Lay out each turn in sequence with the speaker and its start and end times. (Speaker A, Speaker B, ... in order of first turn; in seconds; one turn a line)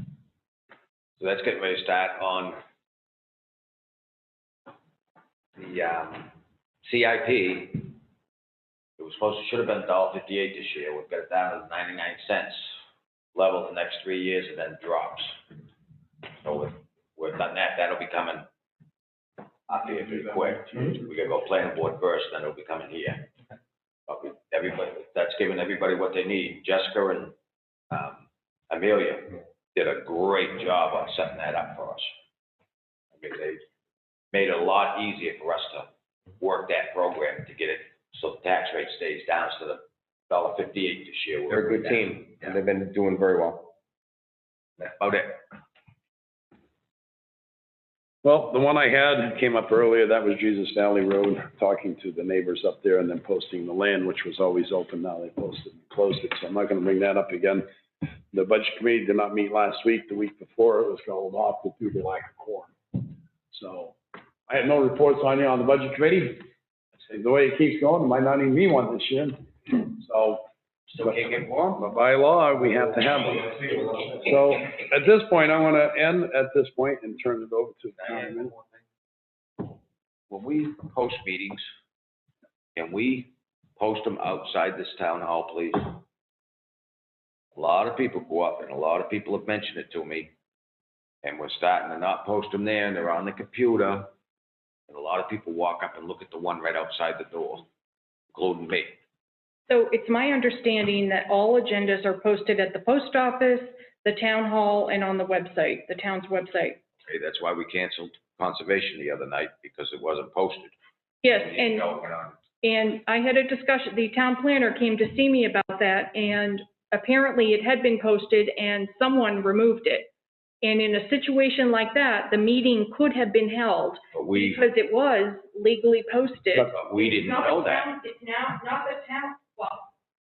Speaker A: 1.2-2.6
Speaker A: 5.6-6.3
Speaker A: 6.8-7.9
Speaker A: 9.0-12.7
Speaker A: 13.3-15.4
Speaker A: 16.3-18.5
Speaker A: 19.7-23.3
Speaker A: 24.1-27.3
Speaker A: 27.9-32.1
Speaker A: 33.1-33.6
Speaker A: 34.3-42.6
Speaker B: 41.5-43.7
Speaker A: 44.9-45.4
Speaker C: 48.2-57.6
Speaker C: 58.3-64.0
Speaker C: 64.5-66.5
Speaker C: 67.1-70.4
Speaker A: 70.9-71.8
Speaker C: 71.0-73.6
Speaker C: 74.1-78.5
Speaker A: 78.0-78.6
Speaker A: 80.3-81.6
Speaker A: 82.8-86.0
Speaker A: 87.5-90.3
Speaker A: 91.2-94.1
Speaker A: 94.9-97.7
Speaker A: 98.3-99.0
Speaker D: 99.7-106.8
Speaker A: 107.1-110.7
Speaker D: 111.2-111.9
Speaker A: 111.3-112.4
Speaker D: 112.6-120.1
Speaker D: 120.6-129.9
Speaker A: 124.1-124.6
Speaker A: 126.6-127.9